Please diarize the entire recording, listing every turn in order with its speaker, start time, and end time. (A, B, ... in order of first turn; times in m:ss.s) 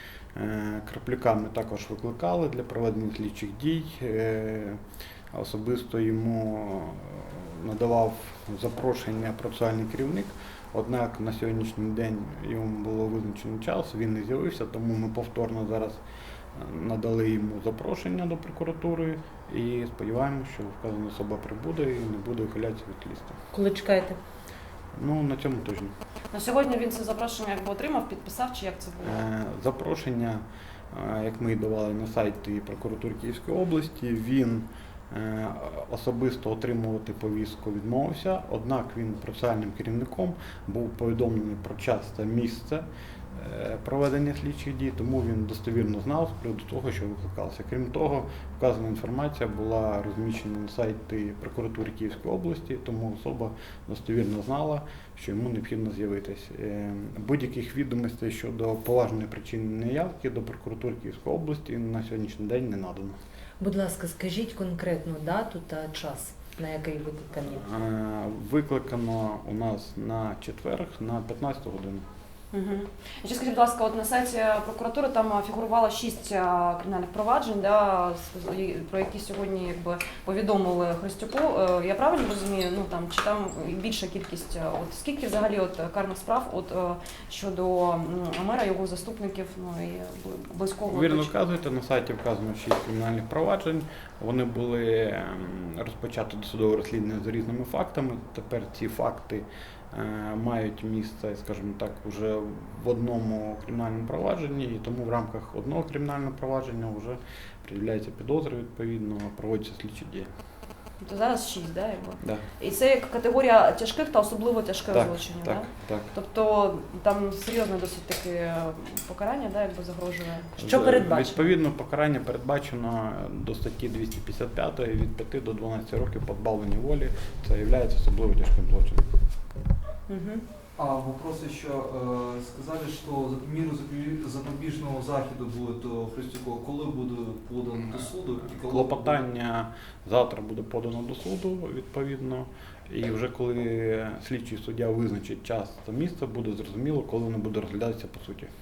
0:00.3-0:04.8 A
0:05.3-0:16.0 A
0:16.6-0:23.4 A
0:23.5-0:24.2 B
0:24.9-0:25.9 A
0:26.3-0:29.2 C
0:29.0-1:03.2 A
1:03.6-1:07.7 B
1:07.5-1:12.0 A
1:12.5-1:31.3 C
1:30.9-1:50.3 A
1:51.0-2:01.5 C
1:54.9-1:56.1 A
2:00.6-2:09.0 A
2:10.1-2:10.4 C
2:10.8-2:19.2 D
2:18.6-2:28.5 A